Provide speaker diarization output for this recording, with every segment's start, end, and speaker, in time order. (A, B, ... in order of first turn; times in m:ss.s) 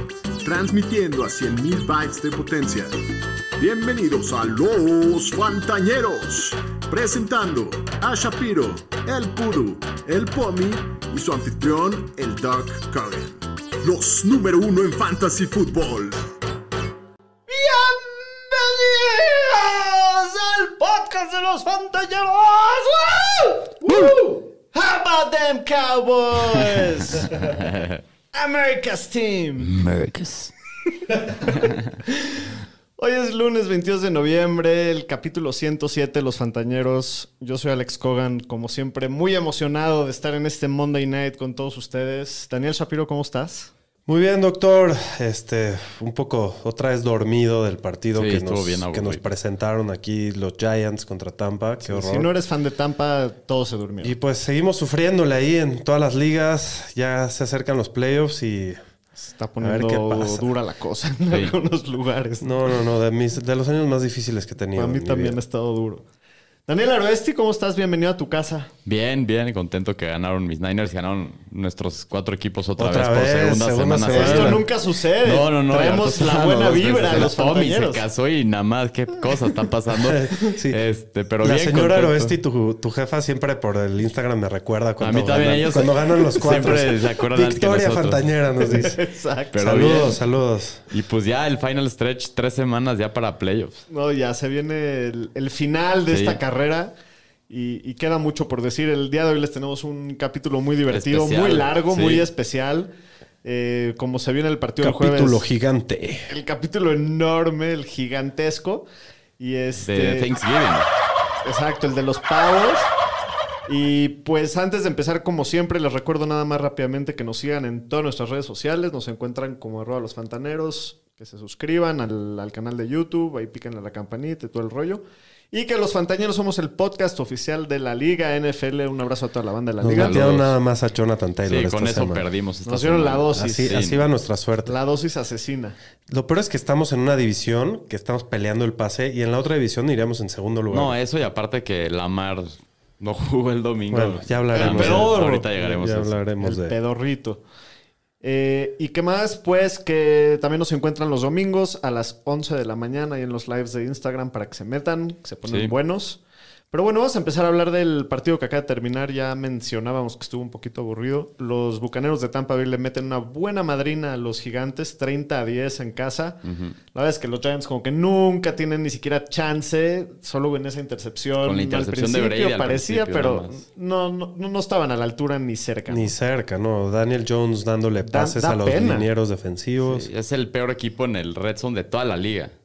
0:00.4-0:02.9 A
0:03.6-0:16.3 A
0:17.5-0:29.8 B
0:27.6-0:28.0 C
0:29.7-0:30.5 C
0:31.1-0:43.7 B
0:44.1-0:52.3 D
0:48.2-0:49.2 C
0:51.8-0:54.1 B
0:54.0-0:58.8 D
0:59.3-1:02.8 B
0:59.6-1:00.6 D
1:02.4-1:05.4 D
1:04.8-1:06.0 B
1:06.7-1:08.7 B
1:08.9-1:14.7 C
1:12.8-1:14.6 D
1:14.1-1:18.0 B
1:15.2-1:22.4 C
1:20.0-1:20.8 D
1:21.4-1:29.0 D
1:25.0-1:28.3 C
1:28.6-1:29.9 B
1:29.5-1:30.2 C
1:29.6-1:30.8 D
1:30.9-1:33.8 C
1:33.9-1:36.9 B
1:36.1-1:36.4 C
1:37.5-1:42.9 B
1:40.9-1:42.3 C
1:43.4-1:45.4 B
1:44.8-1:46.3 D
1:46.3-1:48.8 B
1:49.4-1:50.3 B
1:49.8-1:50.9 C
1:51.4-1:52.9 B
1:53.7-2:10.3 B
2:09.8-2:12.2 D
2:10.0-2:10.5 C
2:11.5-2:14.0 C
2:12.6-2:13.7 B
2:13.4-2:14.8 D
2:14.7-2:15.8 B
2:16.1-2:21.0 D
2:20.7-2:26.2 C
2:23.9-2:26.8 D
2:24.5-2:25.4 B
2:26.4-2:27.4 B
2:28.2-2:36.2 B
2:35.5-2:35.7 C
2:36.7-2:46.4 B
2:46.4-2:46.8 C
2:46.9-2:56.2 B
2:51.4-2:53.6 C
2:55.9-3:00.1 D
2:58.0-2:59.1 B
2:59.8-3:02.6 C